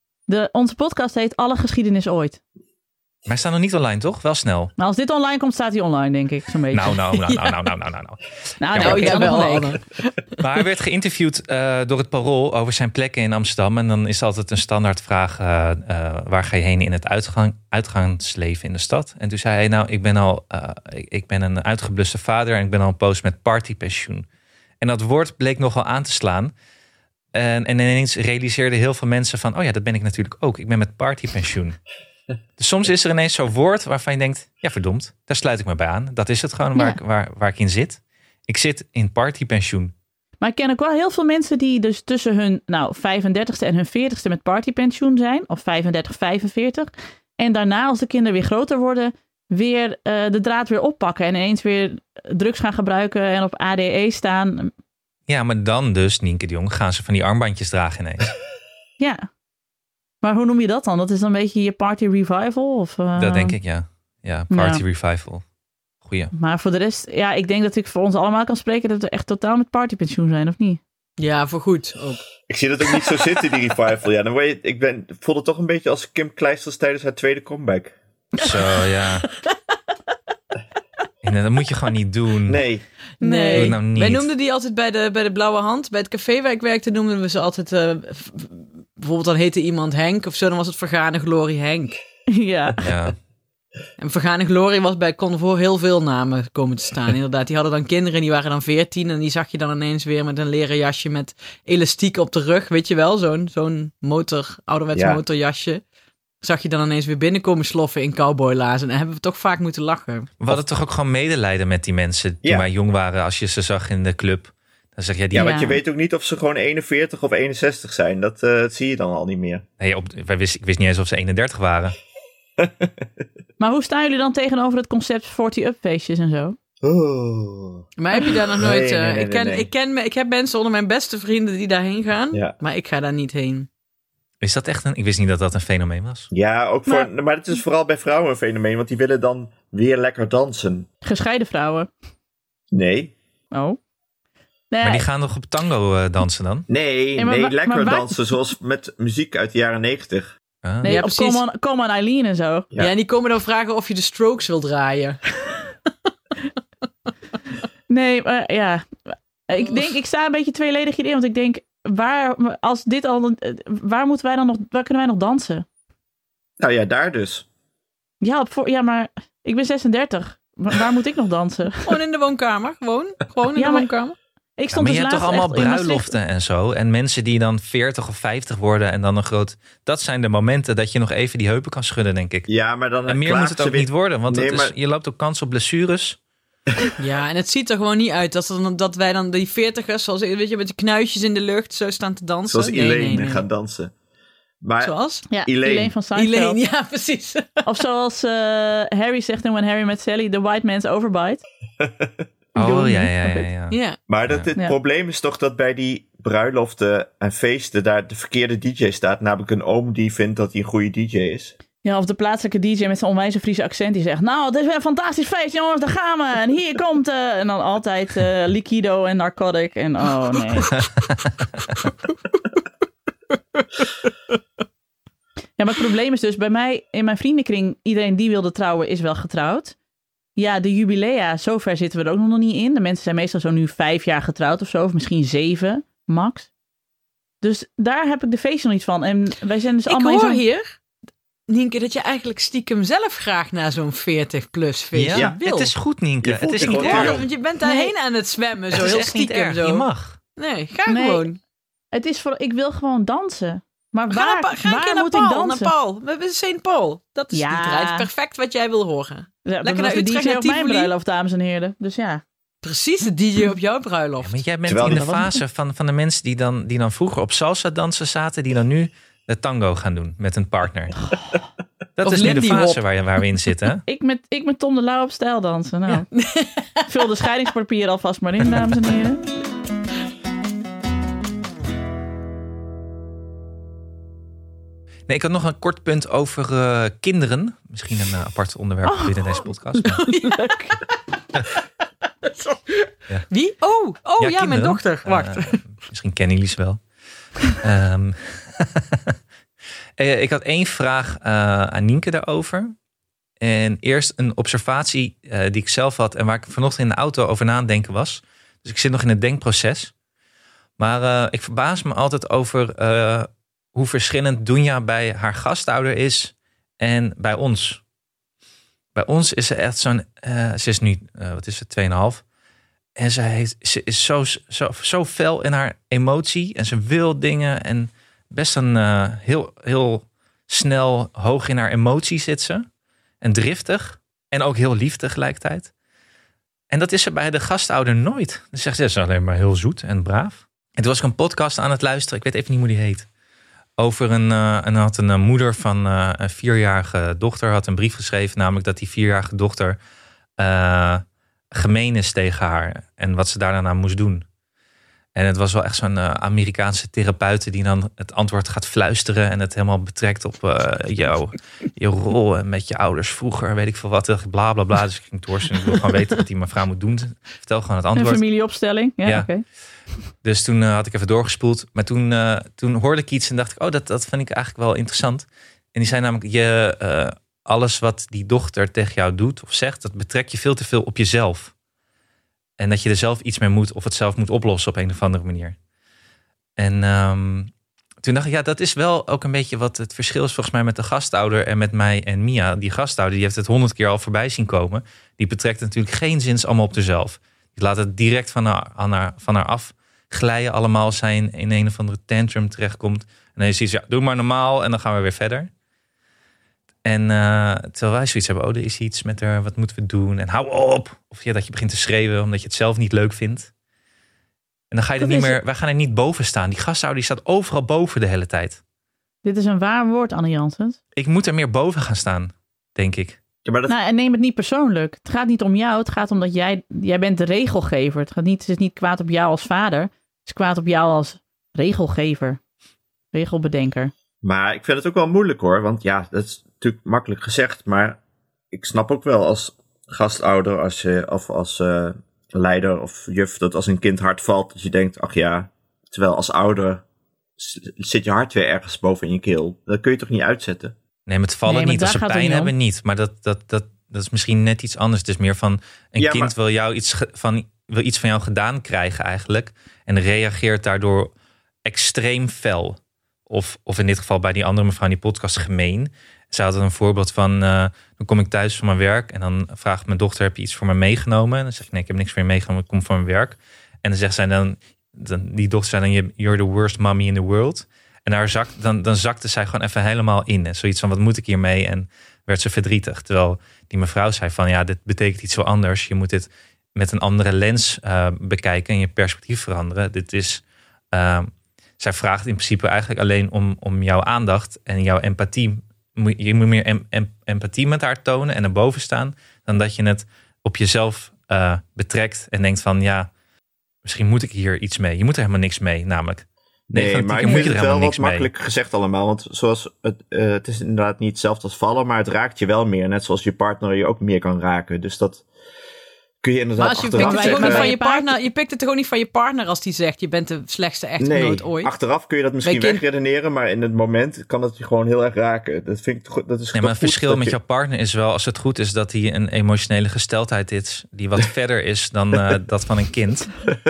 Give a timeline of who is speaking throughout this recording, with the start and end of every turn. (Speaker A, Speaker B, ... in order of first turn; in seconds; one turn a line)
Speaker A: 0.3-2.4
Speaker B: 3.2-4.7
Speaker A: 4.8-7.0
Speaker B: 6.7-9.6
Speaker C: 7.1-7.6
Speaker A: 8.6-9.8
Speaker C: 8.8-10.4
Speaker B: 10.4-24.2
Speaker B: 24.8-26.5
Speaker B: 27.3-31.8
Speaker B: 32.6-39.9
Speaker A: 36.7-37.0
Speaker A: 40.4-54.7
Speaker B: 55.3-58.3
Speaker A: 59.0-59.3
Speaker A: 60.2-63.5
Speaker B: 63.2-65.4
Speaker A: 64.5-64.8
Speaker B: 66.0-66.3
Speaker A: 66.3-70.8
Speaker C: 71.2-72.2
Speaker D: 72.5-77.9
Speaker B: 78.3-79.3
Speaker B: 81.2-82.6
Speaker D: 82.5-82.8
Speaker A: 83.2-83.7
Speaker C: 83.2-92.0
Speaker B: 83.5-84.3
Speaker A: 92.3-92.8
Speaker B: 92.8-93.1
Speaker C: 94.0-105.8
Speaker D: 104.9-105.2
Speaker C: 106.4-110.3
Speaker B: 110.4-115.6
Speaker D: 115.3-119.6
Speaker A: 115.3-115.8
Speaker B: 119.8-121.9
Speaker D: 122.6-123.0
Speaker A: 123.6-126.6
Speaker D: 126.8-127.8
Speaker C: 128.0-133.7
Speaker D: 128.6-129.7
Speaker B: 134.4-136.3
Speaker D: 136.3-140.9
Speaker A: 141.0-141.9
Speaker D: 142.7-143.1
Speaker A: 143.5-143.8
Speaker A: 144.7-145.1
Speaker B: 144.8-146.7
Speaker D: 146.7-150.3
Speaker A: 147.2-148.2
Speaker B: 150.6-150.9
Speaker A: 150.8-152.7
Speaker C: 150.8-151.4
Speaker C: 152.8-155.5
Speaker A: 157.9-165.6
Speaker D: 166.6-167.4
Speaker A: 168.2-171.9
Speaker C: 171.8-174.2
Speaker A: 173.6-173.9
Speaker A: 174.6-176.2
Speaker B: 174.7-182.5
Speaker D: 182.5-184.7
Speaker B: 183.1-186.2
Speaker C: 187.0-193.4
Speaker D: 192.5-193.9
Speaker D: 194.6-195.9
Speaker C: 194.8-195.3
Speaker A: 195.3-196.6
Speaker C: 196.1-197.7
Speaker A: 197.6-201.4
Speaker D: 201.8-202.1
Speaker A: 202.5-203.5
Speaker B: 202.6-204.5
Speaker C: 203.7-204.0
Speaker D: 204.1-211.5
Speaker A: 211.8-220.7
Speaker A: 225.6-229.7
Speaker A: 230.3-236.5
Speaker A: 237.4-240.4
Speaker C: 239.9-240.7
Speaker C: 241.5-245.7
Speaker B: 244.9-247.2
Speaker D: 246.2-247.3
Speaker C: 246.6-251.4
Speaker A: 247.6-247.9
Speaker B: 248.7-250.2
Speaker A: 250.9-251.2
Speaker A: 251.9-255.7
Speaker C: 254.1-260.9
Speaker A: 257.3-258.1
Speaker A: 259.4-262.2
Speaker C: 262.6-264.4
Speaker B: 264.2-271.1
Speaker D: 264.6-265.1
Speaker A: 264.8-265.4
Speaker B: 272.0-273.8
Speaker C: 272.0-272.8
Speaker A: 273.9-276.1
Speaker C: 275.9-276.9
Speaker A: 276.9-279.2
Speaker B: 285.1-290.0
Speaker A: 288.8-290.8
Speaker C: 289.8-290.6
Speaker C: 292.2-295.8
Speaker B: 294.2-296.8
Speaker B: 297.5-299.1
Speaker B: 300.0-302.7
Speaker B: 303.4-309.9
Speaker B: 310.8-317.8
Speaker B: 318.9-322.2
Speaker B: 323.0-332.6
Speaker B: 333.2-335.7
Speaker B: 336.7-343.1
Speaker B: 343.8-349.8
Speaker B: 350.4-354.2
Speaker B: 355.1-368.2
Speaker A: 367.9-369.4
Speaker B: 369.0-369.3
Speaker B: 370.2-381.5
Speaker B: 382.6-385.6
Speaker B: 386.6-387.5
Speaker B: 388.0-405.5
Speaker B: 406.8-413.5
Speaker B: 414.7-418.6
Speaker A: 415.0-415.4
Speaker A: 419.2-420.8
Speaker B: 420.9-423.2
Speaker D: 423.4-423.7
Speaker A: 423.7-432.4
Speaker A: 433.1-433.9
Speaker D: 434.2-438.0
Speaker D: 438.5-446.8
Speaker D: 447.4-450.8
Speaker B: 451.1-461.1
Speaker A: 451.4-452.5
Speaker D: 456.0-456.3
Speaker B: 461.6-490.4
Speaker B: 490.9-503.1
Speaker B: 503.8-508.3
Speaker D: 506.7-515.2
Speaker D: 516.2-517.7
Speaker C: 516.6-521.7
Speaker A: 517.0-518.2
Speaker D: 521.0-527.3
Speaker C: 522.4-522.8
Speaker B: 526.5-533.4